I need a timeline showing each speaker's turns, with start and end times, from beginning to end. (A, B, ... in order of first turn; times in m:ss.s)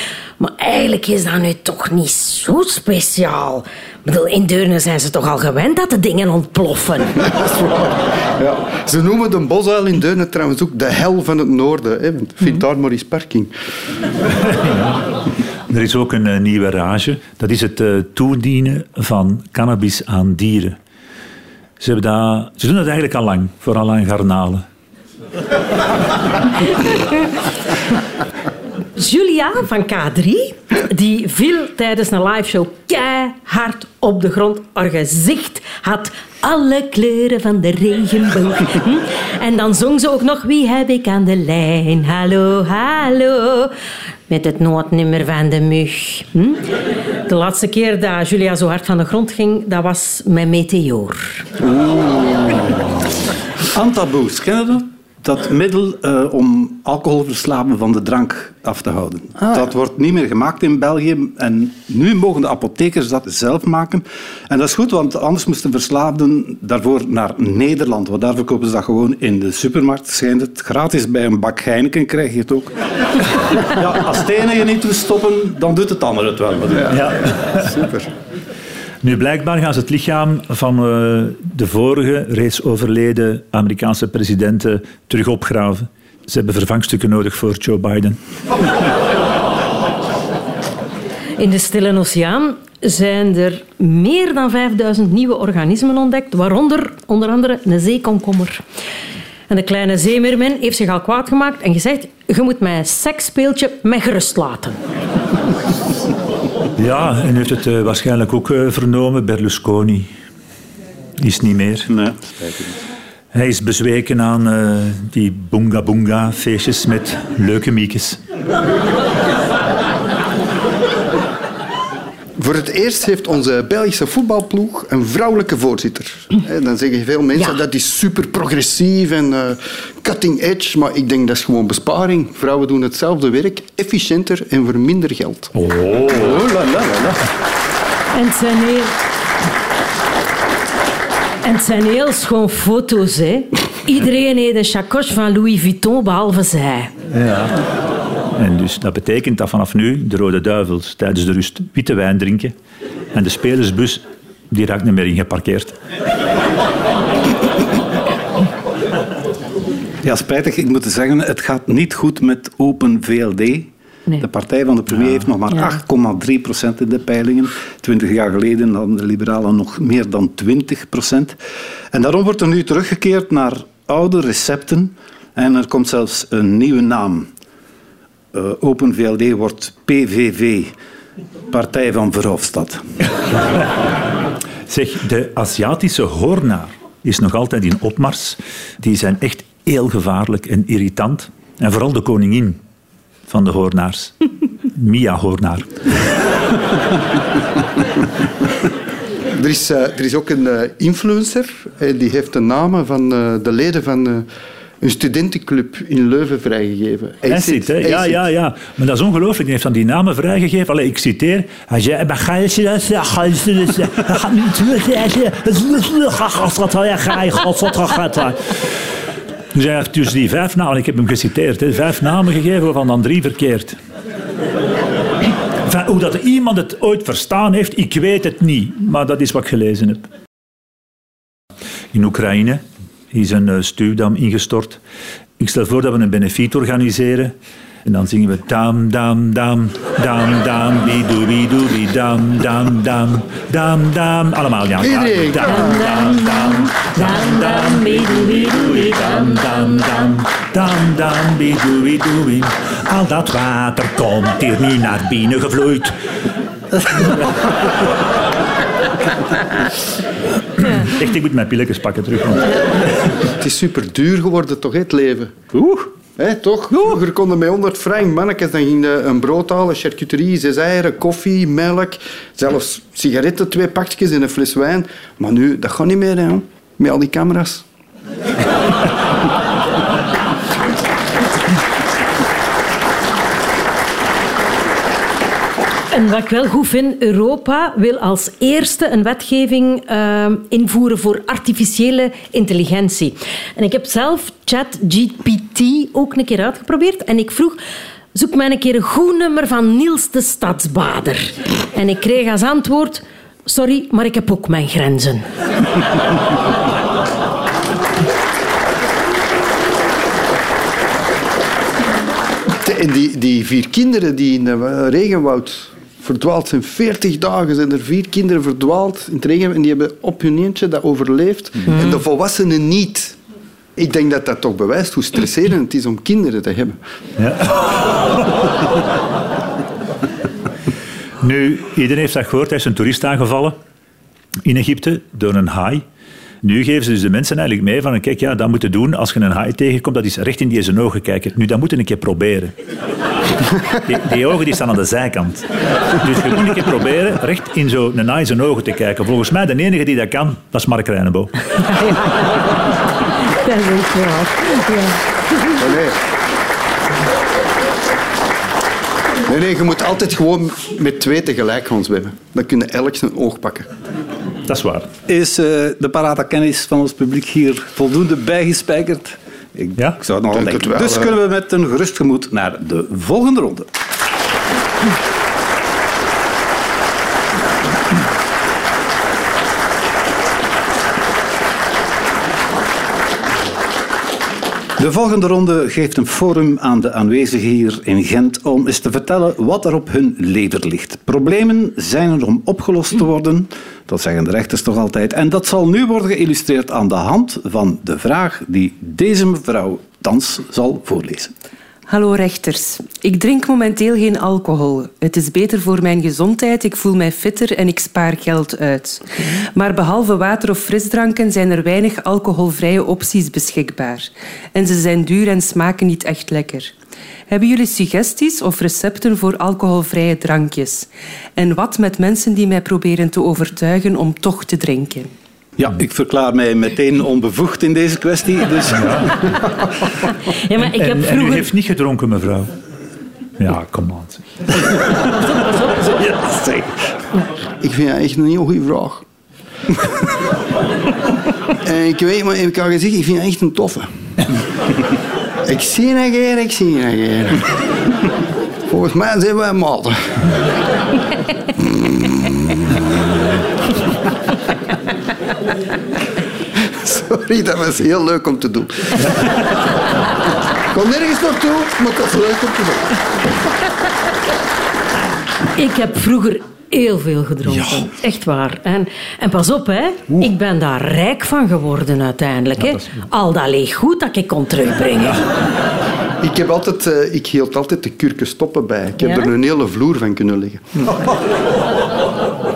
0:00.4-0:07.1 A
0:07.2-0:13.5 B
0:14.5-0:15.0 C
0:15.7-0:20.8 C
0:21.8-0:24.6 C
0:29.0-0:43.7 A
0:44.3-0:46.6 A
0:47.3-0:51.5 A
0:51.7-0:52.6 D
0:53.7-1:12.7 D
0:59.4-0:59.7 B
1:13.5-1:17.0 D
1:16.7-1:18.1 B
1:16.9-1:17.7 C
1:19.0-1:28.2 C
1:31.4-1:38.6 A
1:39.5-1:44.8 A
1:46.8-1:50.1 C
1:51.2-1:51.9 C
1:51.9-1:52.7 D
1:53.3-1:58.2 C
2:02.4-2:15.5 B
2:15.6-2:16.4 C
2:16.1-2:17.2 D
2:18.1-2:18.9 A
2:21.4-2:26.9 A
2:27.1-2:27.6 C
2:28.4-2:32.5 C
2:33.1-2:35.8 C
2:40.0-2:51.4 D
2:51.9-2:57.3 D
2:58.3-3:00.7 D
3:01.5-3:02.8 D
3:04.7-3:12.6 C
3:13.3-3:14.2 C
3:14.7-3:15.9 C
3:19.3-3:24.3 B
3:24.8-3:28.3 B
3:27.3-3:38.7 C
3:39.5-3:43.8 C
3:45.6-3:50.1 C
3:51.9-3:54.8 C
3:55.4-4:16.0 C
4:04.8-4:05.9 B
4:05.4-4:10.1 A
4:16.9-4:17.2 C
4:20.6-4:22.6 C
4:23.2-4:25.4 B
4:26.2-4:37.6 B
4:45.9-4:57.6 A
4:58.1-5:05.2 A
5:12.6-5:23.2 B
5:23.8-5:26.8 B
5:27.2-5:28.5 C
5:31.2-5:33.6 C
5:34.4-5:35.8 C
5:36.4-5:42.6 C
5:43.7-5:51.3 C
5:53.3-5:55.5 A
5:55.6-5:56.0 B
5:59.2-6:03.7 B
6:04.5-6:04.9 C
6:05.1-6:13.7 D
6:10.3-6:11.2 B
6:24.8-6:41.3 D
6:41.9-6:56.7 E
6:57.3-7:05.1 E
7:05.6-7:09.3 D
7:08.7-7:09.2 C
7:10.3-7:11.5 A
7:10.6-7:12.5 C
7:13.4-7:14.8 C
7:15.3-7:16.0 A
7:17.6-7:19.0 B
7:21.6-7:23.9 B
7:25.5-7:27.5 B
7:28.7-7:30.2 B
7:31.6-7:33.1 B
7:36.6-7:39.4 B
7:40.7-7:43.0 B
7:45.6-7:55.2 A
7:47.5-7:47.9 C
7:52.6-7:52.9 C
7:56.2-8:00.9 B
7:59.0-7:59.3 A